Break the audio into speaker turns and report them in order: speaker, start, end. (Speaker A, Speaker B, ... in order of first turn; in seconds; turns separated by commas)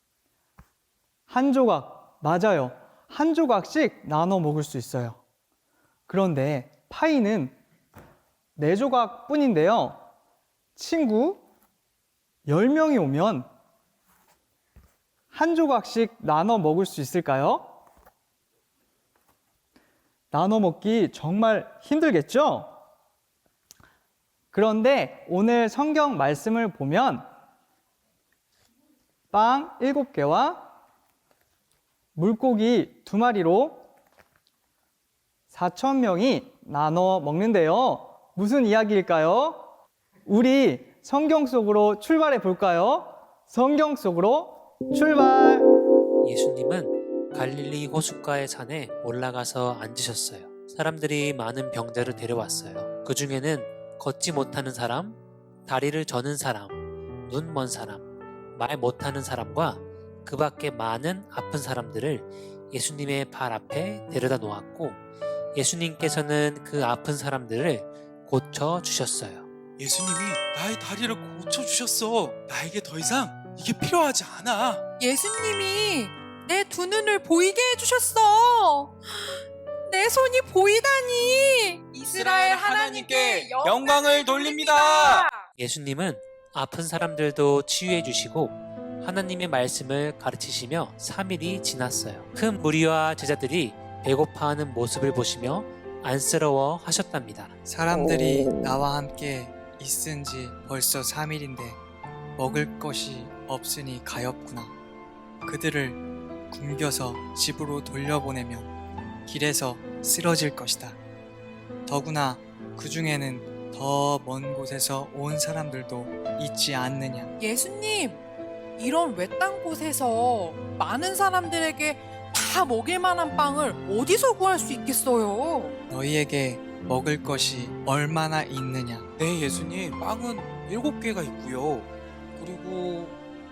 Speaker A: 1.3-5.2, Speaker A: 6.1-7.5, Speaker A: 8.6-10.0, Speaker A: 10.8-11.4, Speaker A: 12.5-13.5, Speaker A: 15.3-17.7, Speaker A: 20.3-22.7, Speaker A: 24.5-27.2, Speaker A: 29.3-30.7, Speaker A: 32.2-33.9, Speaker A: 35.5-39.7, Speaker A: 40.3-45.7, Speaker B: 46.2-58.0, Speaker B: 58.5-65.0, Speaker B: 65.5-69.5, Speaker C: 69.8-74.8, Speaker D: 75.0-85.4, Speaker C: 82.0-85.3, Speaker B: 85.6-97.5, Speaker E: 97.7-101.8, Speaker E: 102.4-104.7, Speaker E: 105.5-106.0, Speaker E: 106.5-108.7, Speaker E: 109.3-111.0, Speaker E: 111.9-117.3, Speaker D: 117.4-118.2, Speaker D: 118.8-125.7, Speaker E: 125.9-129.1, Speaker C: 129.2-133.2